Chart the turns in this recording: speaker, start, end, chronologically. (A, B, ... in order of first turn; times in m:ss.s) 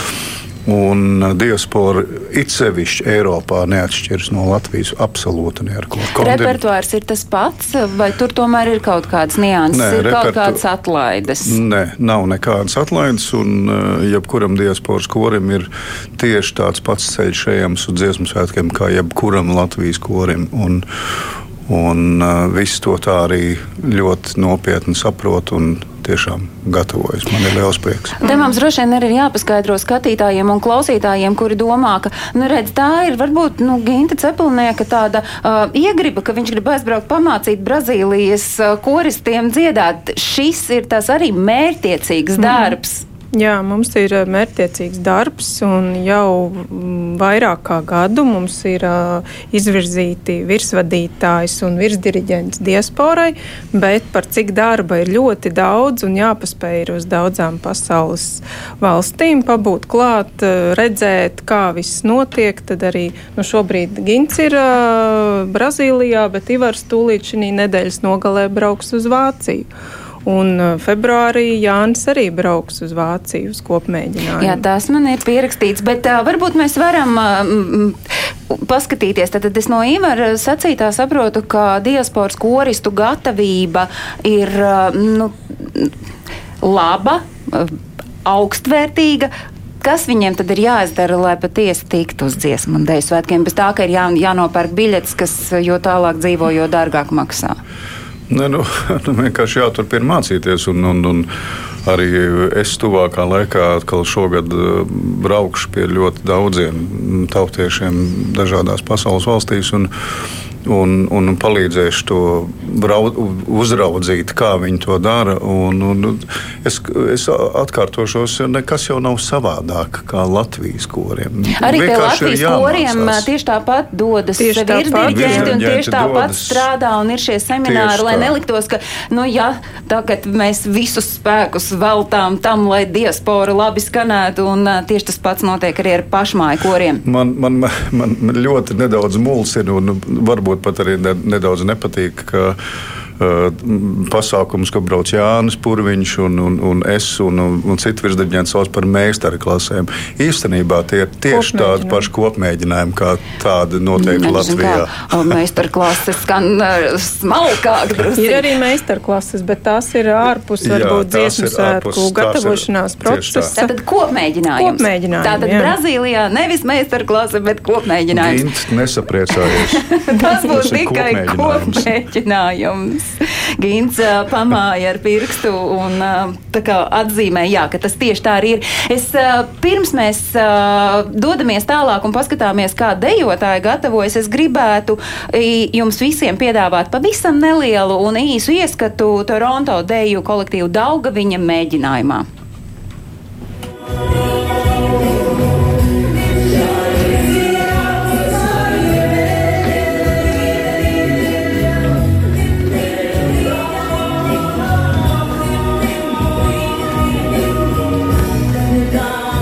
0:00.6-0:06.6 A
0:06.2-0:11.6 B
0:09.7-0:10.6 A
0:11.4-0:20.8 A
0:21.7-0:28.2 A
0:28.2-0:43.0 B
0:42.4-0:42.7 C
0:43.4-1:09.7 C
1:10.2-1:14.6 C
1:14.4-1:18.0 B
1:18.5-1:25.9 B
1:26.6-1:37.6 B
1:38.3-1:41.3 A
1:41.8-1:49.9 A
1:50.6-2:03.3 A
2:01.6-2:17.0 B
2:04.4-2:05.6 C
2:05.0-2:06.6 A
2:07.6-2:08.3 A
2:17.0-2:22.6 A
2:23.2-2:35.1 A
2:31.3-2:32.1 C
2:34.0-2:38.4 B
2:38.2-2:43.7 C
2:40.6-2:43.5 A
2:43.6-2:48.4 B
2:44.6-2:45.7 C
2:48.1-2:49.8 A
2:49.8-3:12.3 B
2:50.4-2:51.9 A